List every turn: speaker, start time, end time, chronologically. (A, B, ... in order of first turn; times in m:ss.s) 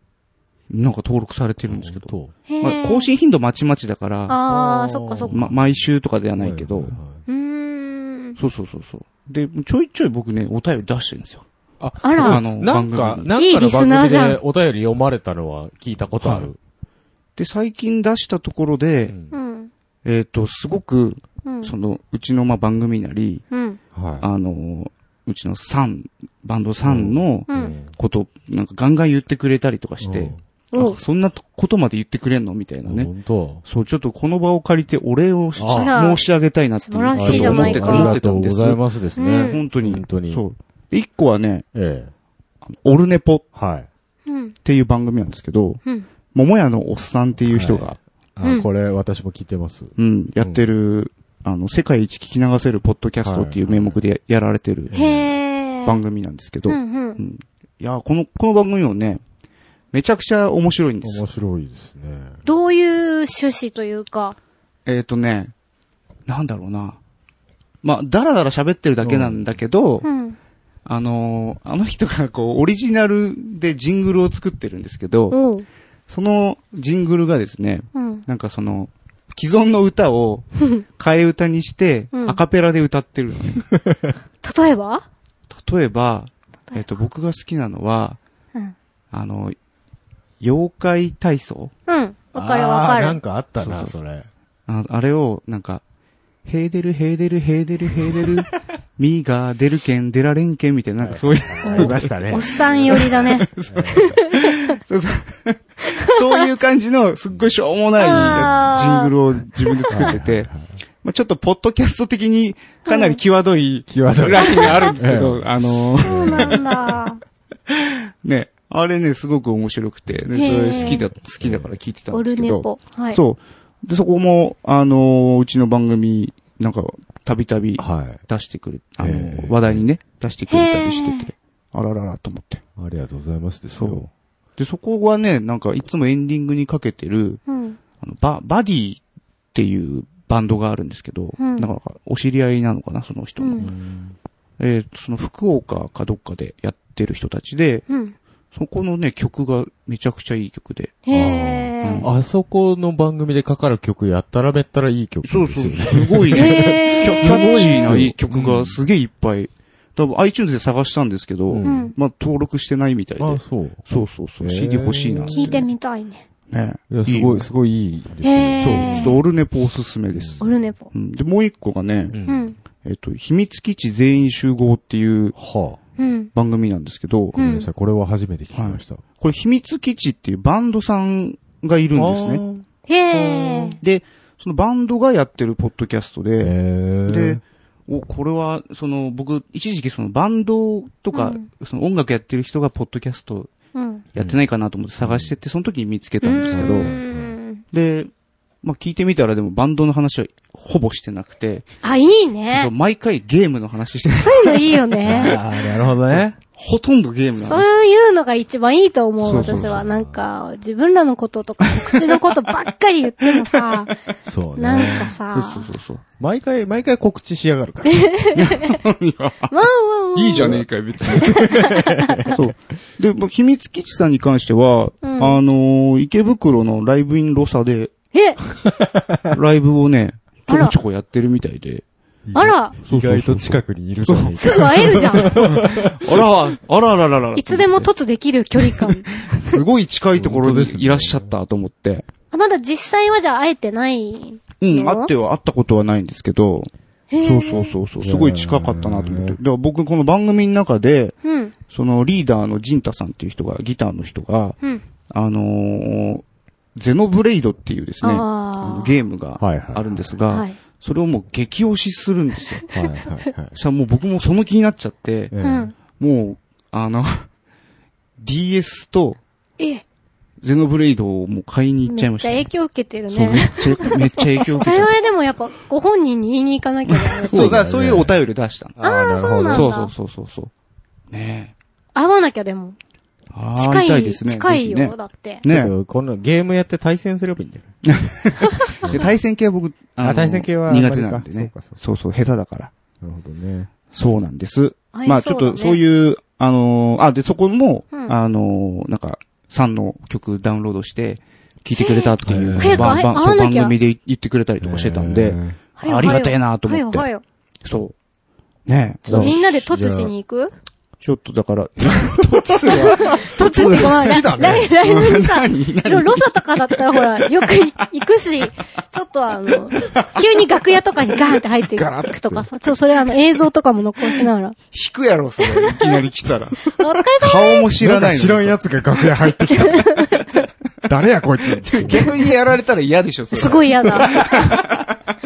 0:00.7-0:04.4 A
0:01.6-0:02.3 B
0:02.5-0:03.1 C
0:04.3-0:05.4 C
0:04.4-0:07.2 B
0:05.3-0:07.0 A
0:07.3-0:08.4 C
0:08.4-0:11.4 A
0:11.8-0:16.6 B
0:12.0-0:12.4 C
0:12.2-0:13.3 A
0:13.4-0:14.4 C
0:16.2-0:16.5 A
0:17.4-0:19.1 A
0:19.1-0:19.3 B
0:19.3-0:19.7 C
0:20.0-0:23.4 A
0:21.4-0:21.7 C
0:23.5-0:23.8 C
0:23.9-0:24.3 B
0:24.2-0:33.1 A
0:26.8-0:27.9 B
0:27.5-0:27.7 C
0:30.0-0:30.4 B
0:30.7-0:31.0 C
0:32.8-0:33.6 B
0:33.6-0:38.8 A
0:35.6-0:36.0 B
0:35.7-0:36.2 C
0:36.8-0:38.1 C
0:37.1-0:40.4 B
0:39.2-0:39.6 C
0:39.4-0:41.6 A
0:41.7-0:42.1 B
0:42.7-0:43.4 A
0:43.5-0:43.9 B
0:44.2-0:44.5 C
0:44.6-0:45.8 A
0:46.3-0:48.0 A
0:47.4-0:50.6 B
0:48.4-0:48.7 C
0:50.0-0:55.0 A
0:53.2-0:54.0 B
0:54.9-0:55.3 B
0:54.9-0:56.0 C
0:55.8-0:59.2 A
0:56.7-0:57.2 C
0:59.9-1:01.2 A
1:01.0-1:02.4 B
1:02.4-1:04.4 C
1:04.8-1:05.5 A
1:06.3-1:07.0 A
1:07.8-1:10.0 A
1:09.0-1:09.5 B
1:10.0-1:10.4 C
1:10.8-1:15.4 A
1:15.3-1:15.6 C
1:16.1-1:23.6 A
1:17.9-1:18.2 C
1:22.1-1:22.4 C
1:23.7-1:24.1 B
1:24.4-1:25.0 C
1:25.5-1:28.2 A
1:29.1-1:29.6 A
1:30.4-1:31.7 A
1:31.9-1:33.2 C
1:32.3-1:34.3 B
1:33.6-1:33.9 A
1:34.7-1:35.8 A
1:36.4-1:42.1 A
1:41.0-1:44.2 B
1:41.6-1:44.7 C
1:42.9-1:50.5 A
1:45.8-1:46.4 C
1:48.0-1:50.1 C
1:48.1-1:48.9 B
1:49.9-1:50.8 B
1:51.0-1:56.7 A
1:52.8-1:53.2 C
1:53.9-1:56.7 B
1:54.5-1:54.9 C
1:56.0-1:57.2 C
1:57.7-2:12.6 A
2:00.3-2:01.0 C
2:00.3-2:01.7 B
2:02.1-2:03.2 C
2:07.8-2:08.2 B
2:09.0-2:09.8 B
2:10.5-2:11.3 C
2:12.8-2:14.1 B
2:13.8-2:17.4 A
2:17.5-2:17.8 C
2:18.0-2:19.0 A
2:19.5-2:23.7 A
2:21.4-2:21.7 C
2:23.4-2:23.7 C
2:23.6-2:24.2 B
2:24.6-2:27.8 A
2:27.9-2:28.1 C
2:28.5-2:30.9 A
2:31.0-2:32.0 C
2:31.1-2:38.8 B
2:31.8-2:32.1 A
2:35.2-2:45.6 A
2:36.3-2:37.9 C
2:41.5-2:41.9 B
2:41.6-2:41.9 C
2:43.2-2:45.7 B
2:45.3-2:46.2 C
2:46.5-2:47.5 A
2:46.9-2:49.2 B
2:48.2-2:49.2 C
2:48.6-2:52.2 A
2:50.1-2:50.4 B
2:50.4-2:50.9 C
2:52.1-2:52.5 B
2:52.2-2:52.5 C
2:52.8-2:55.3 A
2:55.3-2:55.8 B
2:56.0-2:56.3 C
2:56.3-2:57.4 A
2:57.3-2:59.0 B
2:57.4-2:57.7 C
2:58.5-3:02.4 A
3:01.9-3:03.8 B
3:02.9-3:03.8 C
3:03.8-3:06.5 A
3:06.4-3:07.4 B
3:07.1-3:13.5 A
3:11.1-3:11.4 C
3:13.7-3:14.0 C
3:14.1-3:16.9 A
3:15.0-3:15.3 B
3:16.2-3:17.6 C
3:16.5-3:17.4 B
3:17.7-3:18.1 A
3:18.6-3:21.7 A
3:21.8-3:22.7 C
3:22.5-3:27.7 A
3:24.1-3:25.4 C
3:25.0-3:26.4 B
3:27.4-3:33.9 C
3:29.2-3:29.8 A
3:29.4-3:30.2 B
3:31.6-3:32.4 A
3:33.2-3:33.9 A
3:34.2-3:35.1 B
3:34.6-3:35.7 C
3:34.7-3:36.0 A
3:36.2-3:38.1 B
3:37.9-3:38.8 C
3:38.4-3:39.5 A
3:39.5-3:42.4 C
3:40.1-3:41.7 A
3:41.1-3:42.3 B
3:42.2-3:47.9 A
3:45.0-3:45.4 C
3:48.1-3:48.4 C
3:48.6-3:49.3 B
3:49.3-3:51.8 A
3:50.5-3:50.7 C
3:52.3-3:56.2 B
3:52.3-3:52.8 C
3:52.8-3:57.9 A
3:54.4-3:55.4 C
3:57.4-3:59.6 C
3:58.8-4:02.0 A
4:00.1-4:01.3 B
4:02.3-4:05.1 C
4:04.6-4:11.1 A
4:07.1-4:07.8 C
4:08.0-4:09.4 B
4:11.2-4:11.5 C
4:11.7-4:14.6 A
4:15.1-4:16.2 A
4:16.7-4:22.6 A
4:18.0-4:19.0 C
4:19.4-4:20.1 B
4:20.3-4:20.6 C
4:22.7-4:22.9 C
4:22.7-4:23.5 B
4:23.5-4:25.3 A
4:25.3-4:25.7 B
4:25.4-4:25.7 C
4:25.9-4:27.3 A
4:28.2-4:29.2 A
4:30.4-4:32.5 A
4:31.9-4:37.6 C
4:33.1-4:34.9 A
4:36.9-4:38.8 A
4:37.3-4:38.2 B
4:38.8-4:39.7 B
4:38.8-4:39.9 C
4:39.4-4:40.5 A
4:41.1-4:41.5 A
4:41.9-4:42.8 C
4:43.3-4:45.7 A
4:43.6-4:45.4 C
4:45.4-4:47.7 B
4:47.8-4:52.7 A
4:48.4-4:48.8 C
4:50.0-4:51.8 B
4:53.0-4:53.7 B
4:53.9-5:07.1 A
4:54.9-4:55.8 C
5:01.8-5:03.7 C
5:02.2-5:03.0 B
5:04.6-5:05.6 B
5:05.8-5:07.2 C
5:07.6-5:07.9 A
5:08.7-5:09.4 A
5:09.0-5:10.1 B
5:09.1-5:10.5 C
5:11.0-5:17.6 A
5:11.8-5:14.7 B
5:12.7-5:24.6 C
5:19.8-5:20.3 A
5:21.8-5:22.4 B
5:24.7-5:26.6 A
5:25.4-5:26.0 C
5:26.6-5:27.7 C
5:27.2-5:28.6 A
5:27.8-5:30.2 B
5:29.5-5:30.5 C
5:30.8-5:32.1 B
5:31.7-5:35.0 A
5:33.3-5:34.6 C
5:34.2-5:34.4 B